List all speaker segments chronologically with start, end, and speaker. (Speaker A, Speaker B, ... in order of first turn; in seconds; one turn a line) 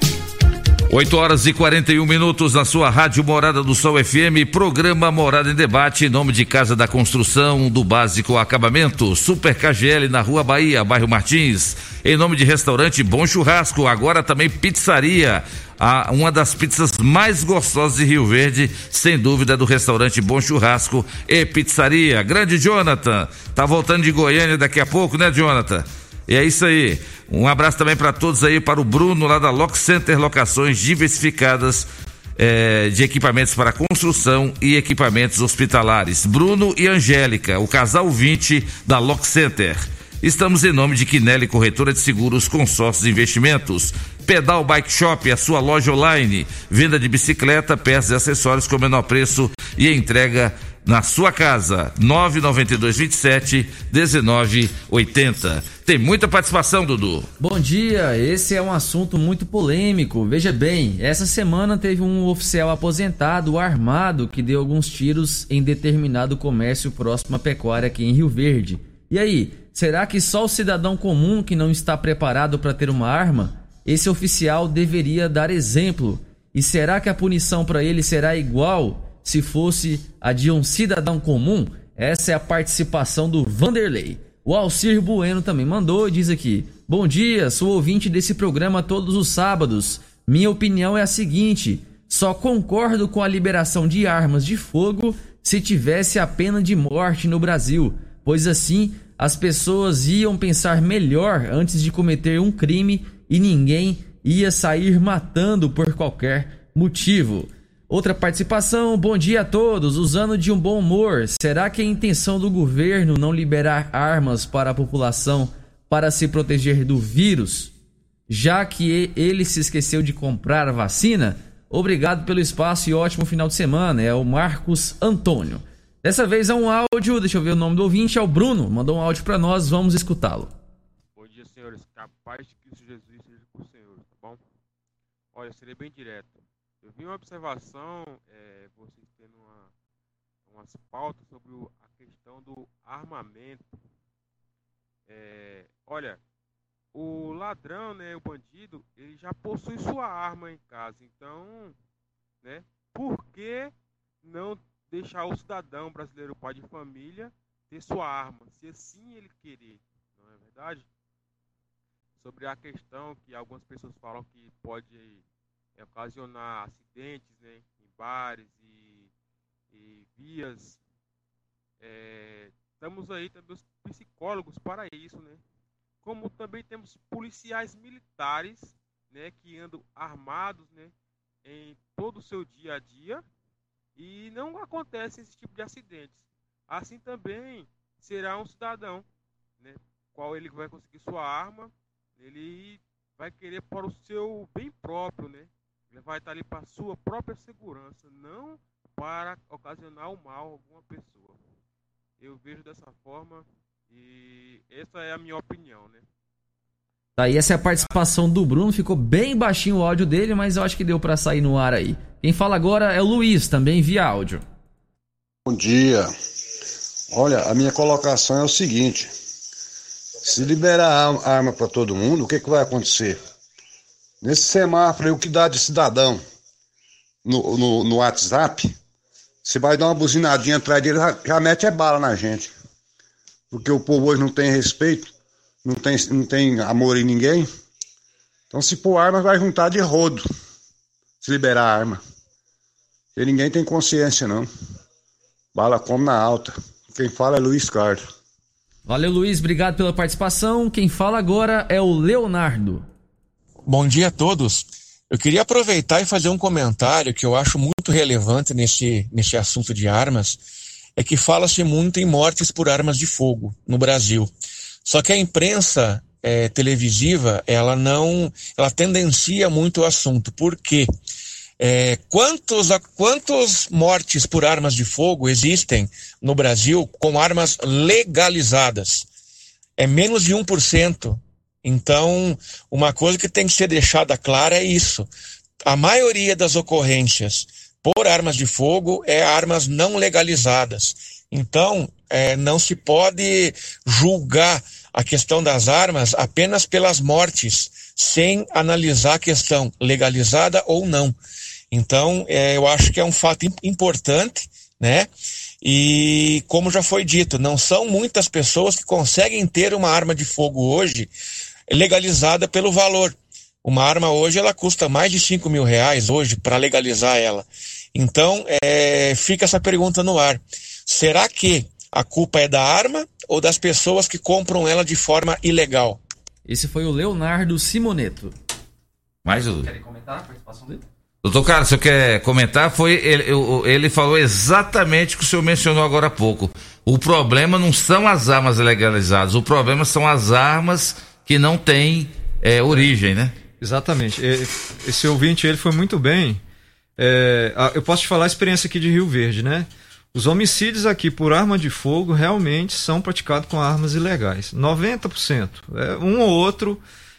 Speaker A: 0.9-57.3
Speaker B: 57.4-117.7
Speaker B: 118.3-130.5
Speaker C: 131.2-134.4
Speaker C: 135.3-139.7
Speaker C: 140.4-143.8
Speaker C: 145.1-146.2
Speaker C: 146.9-151.8
Speaker C: 152.4-160.9
Speaker C: 162.2-165.2
Speaker C: 165.8-169.1
Speaker C: 169.7-170.8
Speaker C: 171.8-175.4
Speaker C: 176.0-180.9
Speaker C: 181.4-183.2
Speaker C: 183.9-189.1
Speaker C: 189.6-201.4
Speaker C: 202.2-206.1
Speaker B: 207.2-214.4
Speaker C: 207.6-207.9
Speaker D: 215.5-216.1
Speaker D: 217.1-219.1
Speaker D: 220.2-223.2
Speaker D: 224.2-226.2
Speaker D: 227.2-228.7
Speaker D: 229.4-232.5
Speaker D: 233.5-235.1
Speaker D: 235.6-237.5
Speaker D: 238.5-240.2
Speaker D: 241.2-242.0
Speaker D: 243.2-244.5
Speaker D: 245.5-248.0
Speaker B: 248.9-252.8
Speaker E: 253.7-260.4
Speaker E: 261.0-264.3
Speaker E: 264.8-270.9
Speaker E: 271.6-279.1
Speaker E: 279.8-285.1
Speaker E: 285.6-301.1
Speaker E: 301.7-305.1
Speaker E: 305.6-311.1
Speaker E: 311.7-326.0
Speaker B: 326.4-328.3
Speaker A: 329.2-329.7
Speaker B: 329.6-330.8
Speaker A: 331.2-343.3
Speaker F: 343.6-346.4
Speaker F: 347.0-356.8